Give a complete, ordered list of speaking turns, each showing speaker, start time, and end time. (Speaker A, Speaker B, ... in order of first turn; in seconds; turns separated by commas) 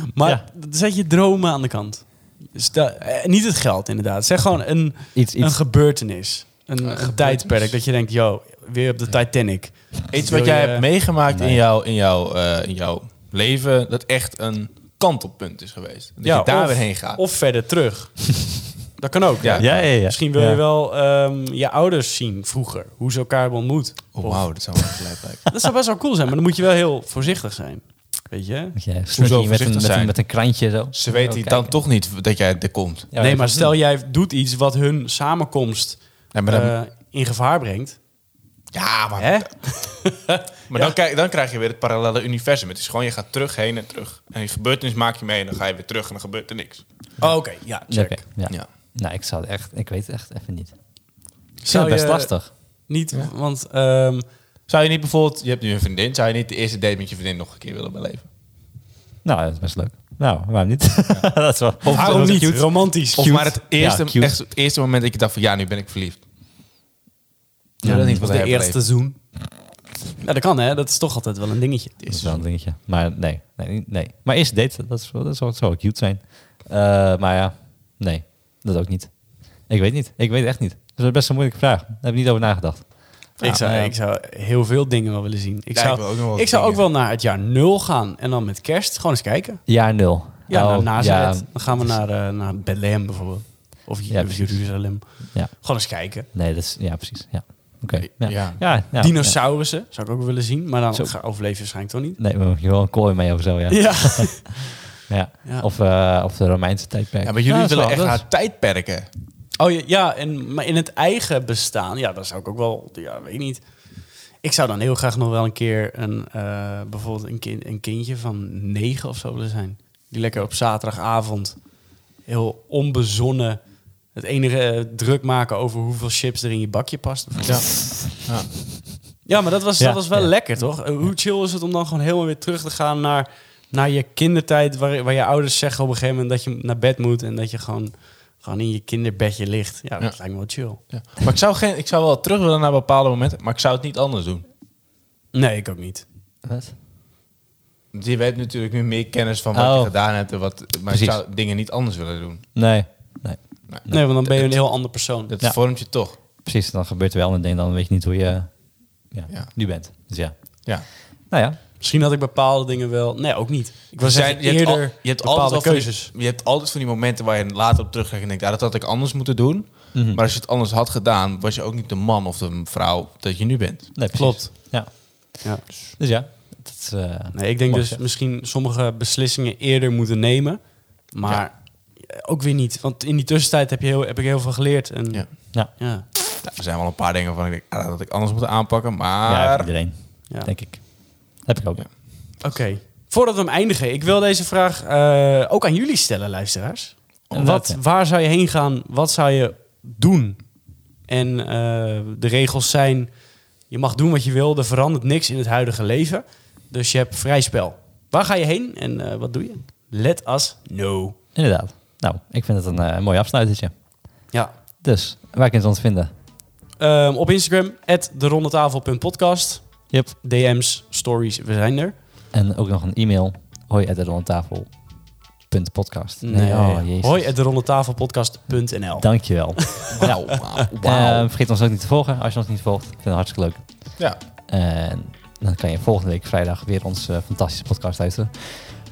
Speaker A: 0.1-10.9, Speaker B: 5.2-5.6, Speaker C: 6.8-7.7, Speaker C: 10.1-17.2, Speaker B: 11.3-11.6, Speaker A: 16.2-24.9, Speaker C: 19.4-19.8, Speaker B: 19.6-20.6, Speaker C: 24.1-25.5, Speaker A: 25.5-28.8, Speaker B: 28.8-31.8, Speaker C: 29.1-30.4, Speaker C: 30.9-33.1, Speaker B: 33.1-33.7, Speaker A: 33.2-38.0, Speaker C: 36.3-36.7, Speaker C: 38.7-39.5, Speaker A: 39.2-40.9, Speaker C: 40.7-46.8, Speaker A: 47.2-48.2, Speaker B: 47.9-50.8, Speaker A: 51.6-54.2, Speaker B: 51.7-52.5, Speaker C: 54.7-58.3, Speaker B: 59.2-64.3, Speaker C: 61.8-62.6, Speaker A: 61.9-63.4, Speaker C: 63.1-66.2, Speaker C: 67.8-68.8, Speaker B: 67.8-68.2, Speaker A: 68.1-69.2, Speaker A: 70.2-72.0, Speaker C: 72.0-72.4, Speaker B: 72.1-83.9, Speaker A: 83.4-89.7, Speaker C: 85.7-86.8, Speaker B: 89.7-92.0, Speaker A: 90.5-96.3, Speaker B: 94.1-99.4, Speaker C: 98.0-98.7, Speaker A: 98.9-102.2, Speaker B: 100.9-101.2, Speaker B: 102.2-108.2, Speaker A: 103.7-104.7, Speaker C: 107.2-109.1, Speaker A: 109.6-127.7, Speaker C: 127.5-128.5, Speaker A: 129.2-140.8, Speaker B: 129.8-130.5, Speaker C: 140.0-144.4, Speaker A: 145.3-146.1, Speaker B: 146.4-146.7, Speaker C: 147.9-152.5, Speaker B: 149.5-149.9, Speaker B: 150.9-151.2, Speaker B: 152.6-154.3, Speaker C: 153.7-156.2, Speaker A: 153.9-155.3, Speaker B: 156.4-161.6, Speaker C: 159.3-159.6, Speaker A: 161.8-166.1, Speaker C: 164.0-174.2, Speaker B: 169.9-170.2, Speaker B: 173.9-175.5, Speaker A: 174.1-175.6, Speaker B: 176.0-178.0, Speaker A: 177.3-186.1, Speaker C: 186.4-189.8, Speaker B: 189.3-191.9, Speaker A: 192.4-203.2, Speaker B: 197.3-197.8, Speaker A: 203.7-211.2, Speaker B: 211.3-213.8, Speaker B: 214.8-216.1, Speaker A: 216.8-222.0, Speaker B: 222.3-227.3, Speaker A: 226.2-230.1, Speaker B: 229.0-238.7, Speaker C: 229.9-231.3